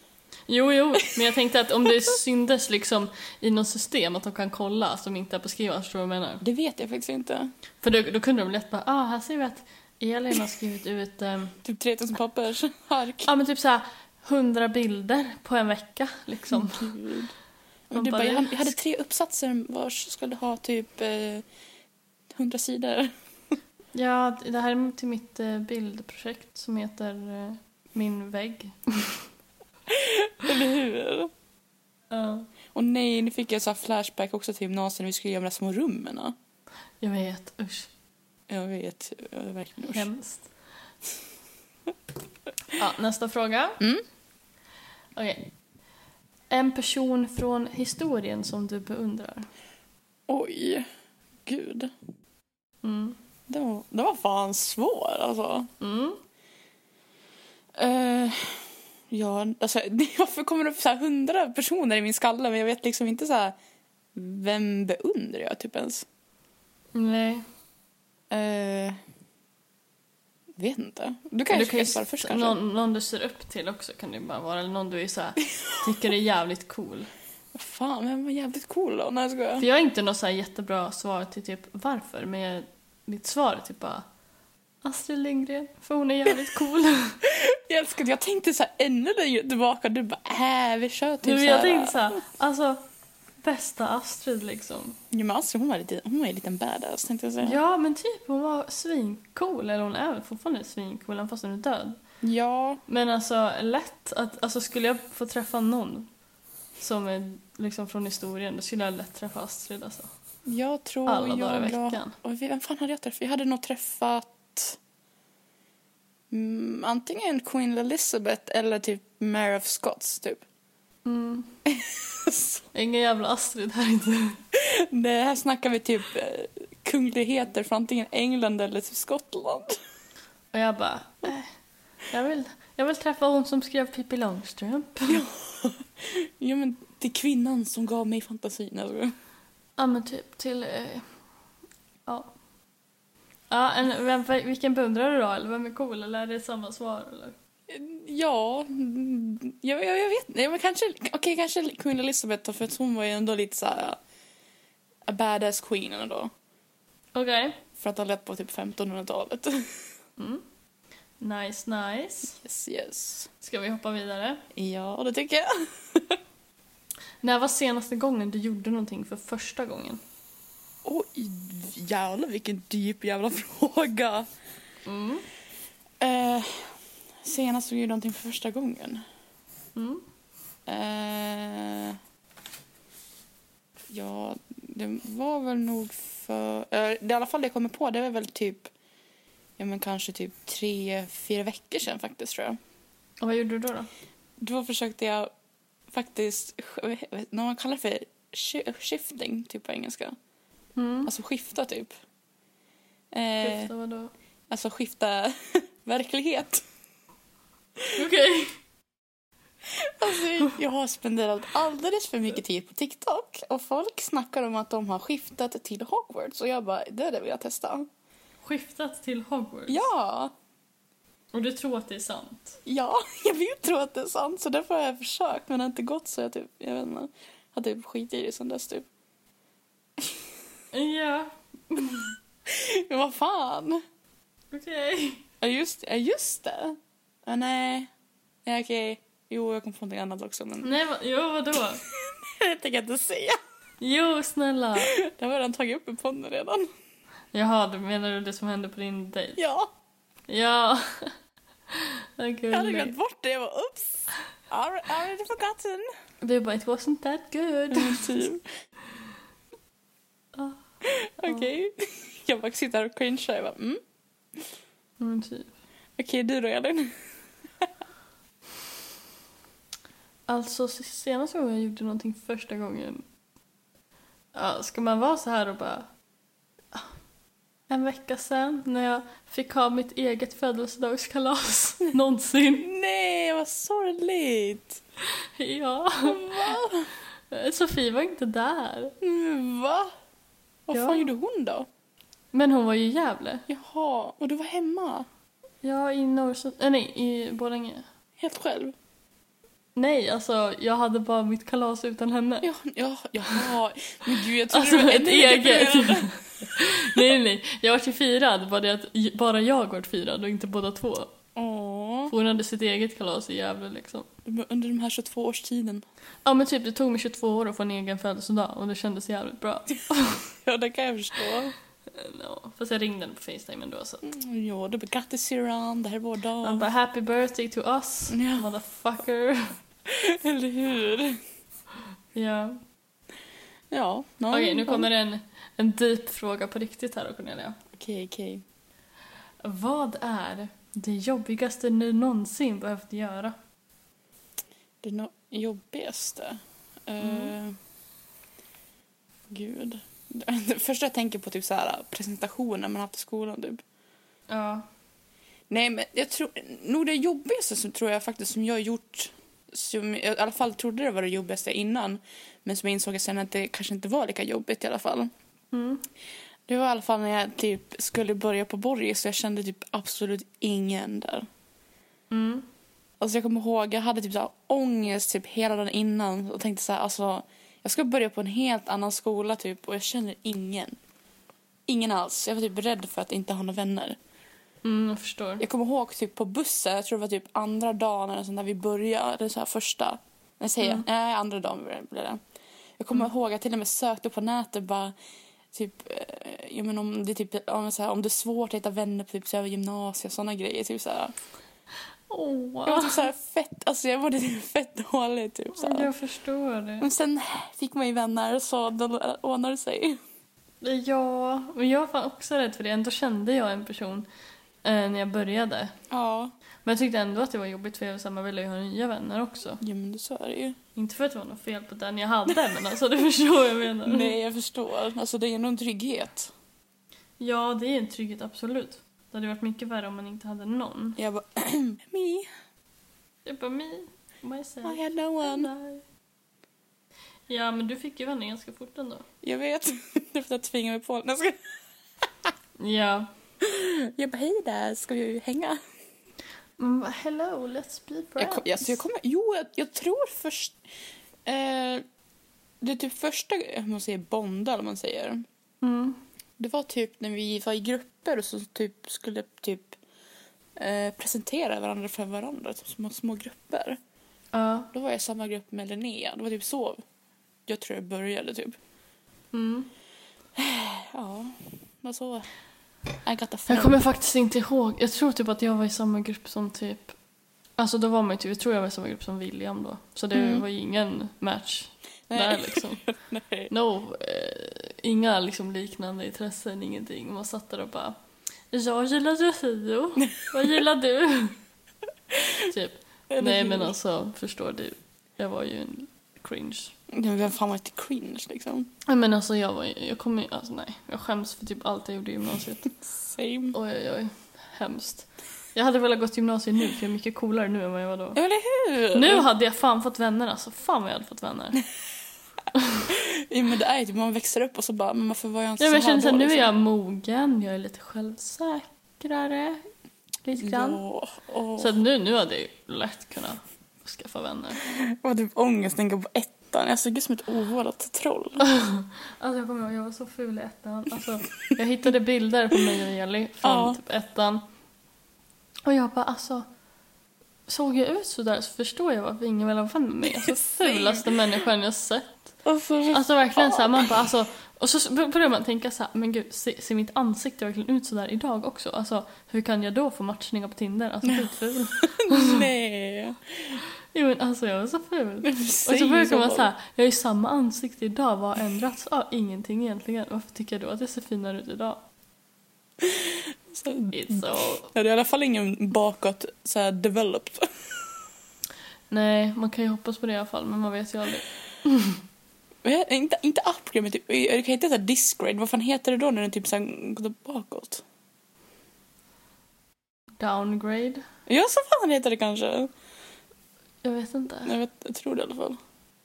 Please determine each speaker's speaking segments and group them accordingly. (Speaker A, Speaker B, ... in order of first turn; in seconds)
Speaker A: 0.5-6.4, 7.8-11.6, 13.2-16.9, 17.9-18.7, 23.9-29.3, 32.1-32.5, 37.0-37.9, 39.9-40.5, 42.8-43.8, 45.2-45.5, 46.5-49.5, 52.8-53.2, 55.8-56.2, 67.0-67.5, 71.5-77.1, 79.6-84.0, 84.8-87.2, 91.2-92.8, 93.4-95.0, 97.4-102.0, 102.9-106.1, 106.8-110.1, 111.1-112.2, 121.1-121.5, 122.7-124.4, 130.5-131.5, 132.1-135.2, 139.8-141.1, 142.1-142.3, 143.5-147.3, 157.2-157.6, 160.2-160.4, 161.2-162.4, 163.4-164.4, 167.2-170.0, 174.9-175.3, 179.8-180.0, 193.2-193.9, 200.8-201.1, 203.4-204.1, 207.9-208.5, 218.4-219.8, 221.3-222.6, 230.7-232.1, 234.5-235.2, 240.6-241.8, 243.8-244.9, 247.3-249.4, 250.3-251.1, 251.7-252.9, 256.2-258.2, 265.0-265.5, 270.3-273.1, 274.3-275.9, 277.7-282.7, 285.4-286.6, 287.3-288.9, 290.7-291.1, 292.3-293.4, 295.6-297.9, 299.8-302.5, 304.5-311.1, 312.1-314.1, 316.2-320.2, 321.9-324.0, 326.4-329.6, 332.1-332.6, 334.3-337.6, 339.4-343.4, 347.0-347.3, 354.3-354.7, 365.5-365.8, 372.1-372.5, 384.6-385.4, 402.1-403.1, 405.6-406.9, 410.6-414.1, 414.6-415.8, 416.6-419.6, 420.8-424.2, 427.2-431.0, 433.3-435.8, 437.3-439.1, 442.6-443.1, 446.6-448.8, 455.6-456.0, 464.3-464.7, 469.3-469.7, 473.5-476.9, 477.6-482.8, 483.5-488.0, 488.5-491.4, 492.4-496.7, 498.9-502.7, 503.5-508.2, 508.9-511.6, 512.5-512.9, 515.6-519.6, 520.2-520.8, 521.6-524.6, 528.4-534.4, 535.7-536.5, 537.5-542.3, 542.9-552.5, 553.9-561.8, 563.9-564.7, 568.9-572.0, 580.2-581.0, 583.8-584.6
Speaker B: 6.4-7.5, 11.6-13.3, 16.5-17.3, 17.9-21.4, 22.3-23.1, 29.9-31.3, 32.7-36.4, 38.5-40.1, 50.3-50.9, 51.5-51.9, 53.5-55.7, 57.8-63.6, 64.2-66.0, 68.3-69.0, 70.6-72.6, 77.5-79.7, 87.2-92.2, 95.1-97.6, 102.2-102.8, 110.5-114.8, 116.3-120.4, 121.7-122.6, 124.5-129.8, 135.1-139.1, 147.7-154.0, 155.1-156.3, 157.8-159.9, 162.4-163.3, 164.6-166.2, 170.8-174.3, 176.0-179.1, 180.7-182.0, 183.9-188.7, 189.6-192.6, 194.4-195.3, 195.9-200.2, 201.1-201.9, 203.1-203.7, 204.5-206.6, 209.7-217.9, 219.7-220.3, 222.7-228.9, 232.5-233.8, 235.4-237.9, 238.5-240.8, 241.8-243.4, 244.8-246.7, 249.4-249.7, 252.5-255.9, 257.7-258.5, 260.8-263.8, 266.0-266.9, 282.6-284.8, 286.0-286.9, 289.0-289.9, 290.7-291.7, 293.5-295.1, 298.2-298.8, 302.4-307.1, 311.4-312.1, 314.2-315.9, 320.3-321.5, 324.0-326.7, 328.1-328.5, 329.9-331.2, 333.7-334.9, 337.7-338.4, 344.8-347.6, 349.3-353.6, 355.5-365.1, 366.5-371.3, 373.0-380.8, 381.7-384.0, 385.4-392.2, 392.8-394.9, 395.5-401.1, 402.6-405.9, 406.8-410.0, 415.9-416.3, 419.6-420.6, 423.8-426.3, 431.0-432.3, 434.6-435.5, 439.2-441.4, 443.4-445.6, 448.2-450.6, 451.3-451.8, 452.6-455.2, 456.4-459.8, 460.6-463.8, 464.7-466.8, 467.5-468.6, 470.4-472.3, 473.0-473.8, 480.1-480.4, 482.1-483.5, 490.1-490.4, 492.1-492.5, 493.1-493.8, 496.9-498.7, 502.9-503.6, 508.1-509.3, 512.9-516.5, 520.4-521.7, 524.6-528.4, 533.4-533.8, 540.2-541.2, 542.5-544.0, 551.0-553.6, 555.2-556.5, 562.8-567.9, 572.6-577.8, 581.3-582.7, 584.5-585.6